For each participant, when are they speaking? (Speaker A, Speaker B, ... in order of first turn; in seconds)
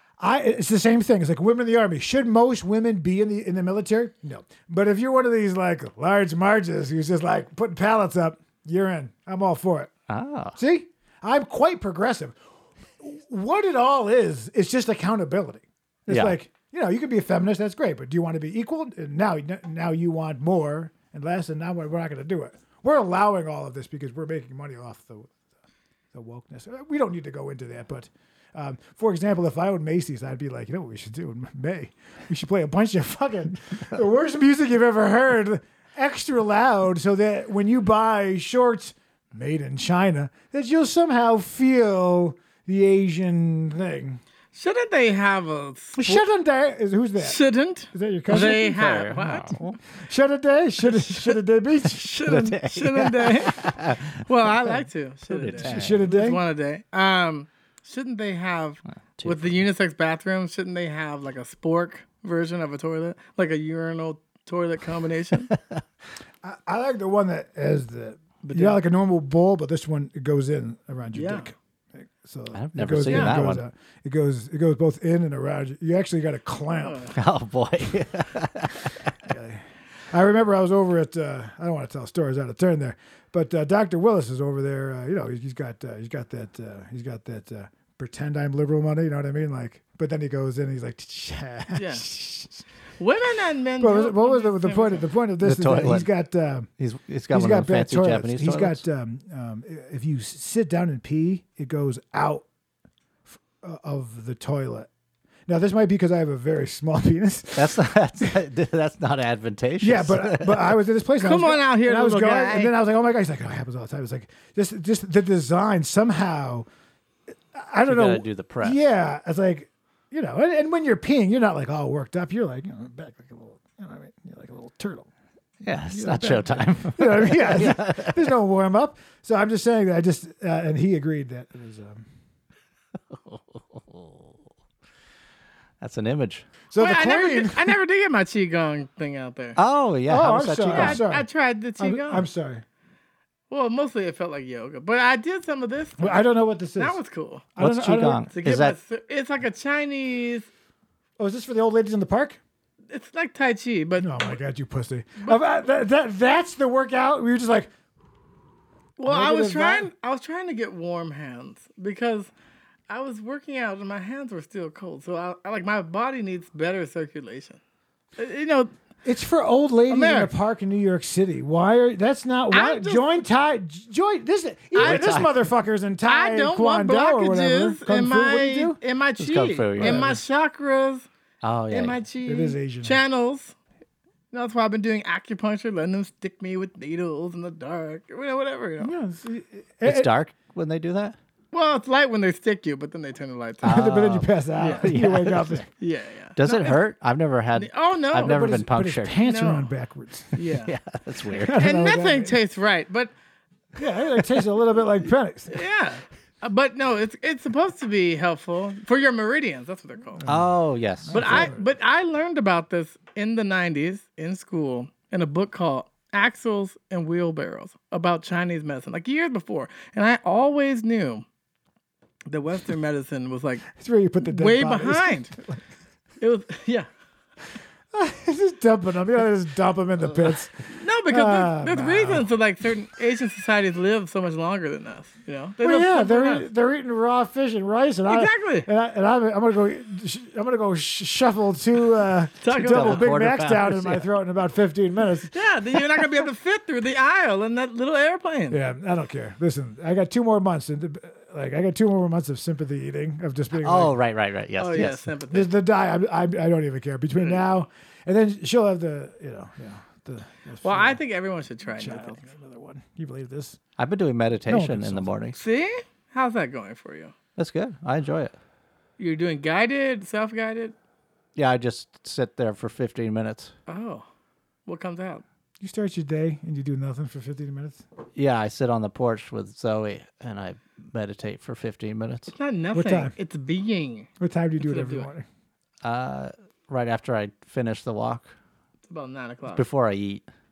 Speaker A: 0.2-9.9, 10.6-12.4, 13.0-25.3, 26.1-44.2, 46.0-48.8, 49.9-52.2, 55.5-56.4, 66.4-77.1, 79.2-92.6, 93.8-96.7, 97.3-102.4, 103.3-104.9, 105.5-108.3, 109.8-116.7, 117.5-125.1, 125.9-132.1, 136.7-137.8, 140.1-142.6, 146.0-147.0, 147.6-148.3, 151.2-152.4, 154.0-157.7, 159.1-159.9, 169.1-178.8, 179.8-180.2, 182.2-183.0, 188.8-190.1, 193.6-195.7, 198.2-200.4, 201.4-202.4, 203.8-205.6, 210.2-210.5, 211.1-211.6, 223.7-225.6, 227.9-230.6, 231.1-232.3, 235.6-245.3, 248.5-254.0, 255.3-261.0, 261.7-263.6, 264.5-265.1, 275.6-277.8, 282.7-283.1, 284.2-285.3
Speaker B: 10.1-10.6, 16.1-16.4, 48.3-49.8, 52.2-54.3, 55.3-56.1, 59.2-59.6, 65.5-65.8, 72.5-73.6, 77.1-79.1, 95.4-96.1, 96.8-98.8, 107.5-110.8, 117.9-118.8, 125.6-128.3, 133.1-134.3, 135.8-136.5, 139.6-141.0, 147.6-148.8, 174.8-175.4, 179.2-180.2, 181.4-182.0, 189.8-191.2, 193.6-195.6, 196.4-199.2, 200.6-201.6, 210.3-211.5, 242.5-244.0, 253.6-255.1, 263.8-265.4, 267.4-268.4, 271.4-273.5, 278.1-282.3, 285.8-288.3, 289.6-290.3
Speaker C: 44.5-46.2, 47.2-49.6, 50.9-51.3, 52.0-65.5, 68.4-68.8, 71.1-71.5, 73.1-73.4, 76.8-77.1, 91.7-92.1, 93.0-95.1, 111.2-112.7, 136.8-139.6, 140.7-142.3, 143.5-147.5, 148.3-150.5, 152.9-154.3, 155.2-155.4, 159.0-162.3, 162.9-167.6, 168.2-168.7, 169.9-170.3, 172.5-173.2, 174.7-175.2, 176.1-181.1, 181.7-183.6, 184.3-188.9, 191.5-193.8, 194.6-194.9, 195.8-196.8, 197.6-198.4, 199.2-199.7, 200.3-200.7, 201.5-203.1, 205.5-210.2, 211.1-221.3, 222.3-223.7, 224.2-225.3, 226.2-226.9, 230.8-236.5, 238.1-238.7, 242.4-243.1, 245.3-248.6, 254.6-255.5, 260.6-262.3, 265.4-267.1, 269.0-270.7, 273.7-274.1, 274.6-275.2, 282.3-285.1, 288.9-289.6